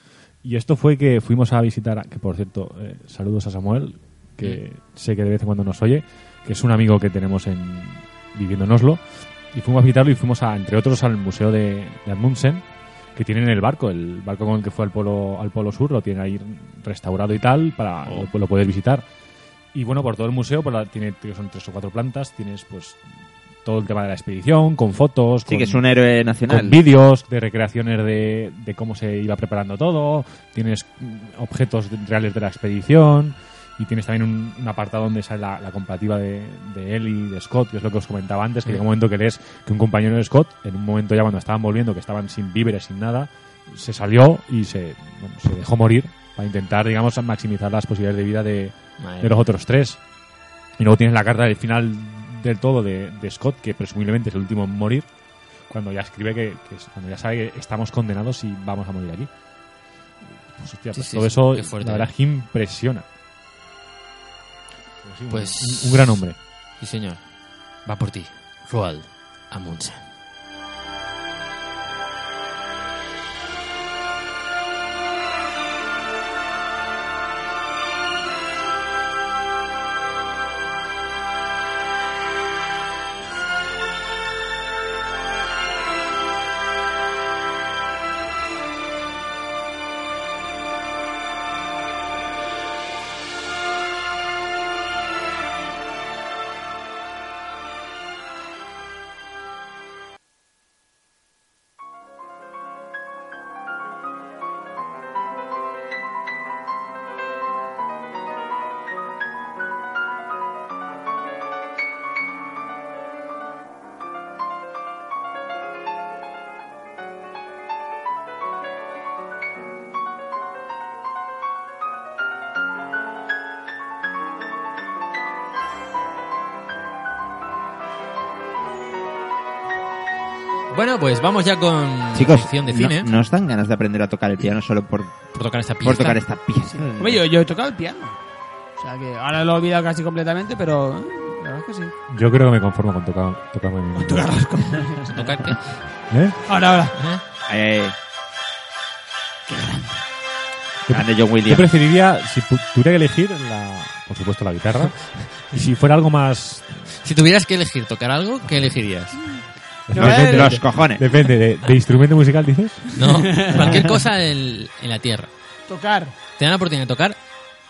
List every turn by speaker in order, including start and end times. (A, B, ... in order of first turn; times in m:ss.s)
0:00.4-0:19.0 A
0:18.0-0:18.3 B
0:19.7-0:23.0 A
0:23.6-0:25.8 A
0:25.5-0:26.8 C
0:26.5-0:50.0 A
0:49.0-0:49.5 B
0:50.8-0:55.1 A
0:55.7-0:59.3 A
1:00.5-1:03.0 A
1:00.9-1:02.1 B
1:05.0-1:06.4 A
1:05.3-1:06.2 B
1:06.8-1:07.3 B
1:07.9-1:10.1 B
2:10.7-2:13.1 B
2:12.1-2:15.2 C
2:15.3-2:16.2 B
2:15.8-2:17.2 C
2:16.7-2:18.2 D
2:18.8-2:21.9 D
2:22.1-2:24.3 A
2:24.0-2:25.3 D
2:25.1-2:25.6 B
2:26.1-2:26.4 A
2:26.5-2:27.0 D
2:27.0-2:27.2 B
2:27.5-2:28.0 C
2:29.5-2:30.0 D
2:30.9-2:36.8 A
2:30.9-2:31.7 C
2:37.0-2:39.4 B
2:39.9-2:40.6 D
2:39.9-2:43.6 A
2:40.0-2:41.0 C
2:43.0-2:45.3 B
2:43.1-2:43.7 D
2:45.7-2:46.2 D
2:46.4-2:47.2 B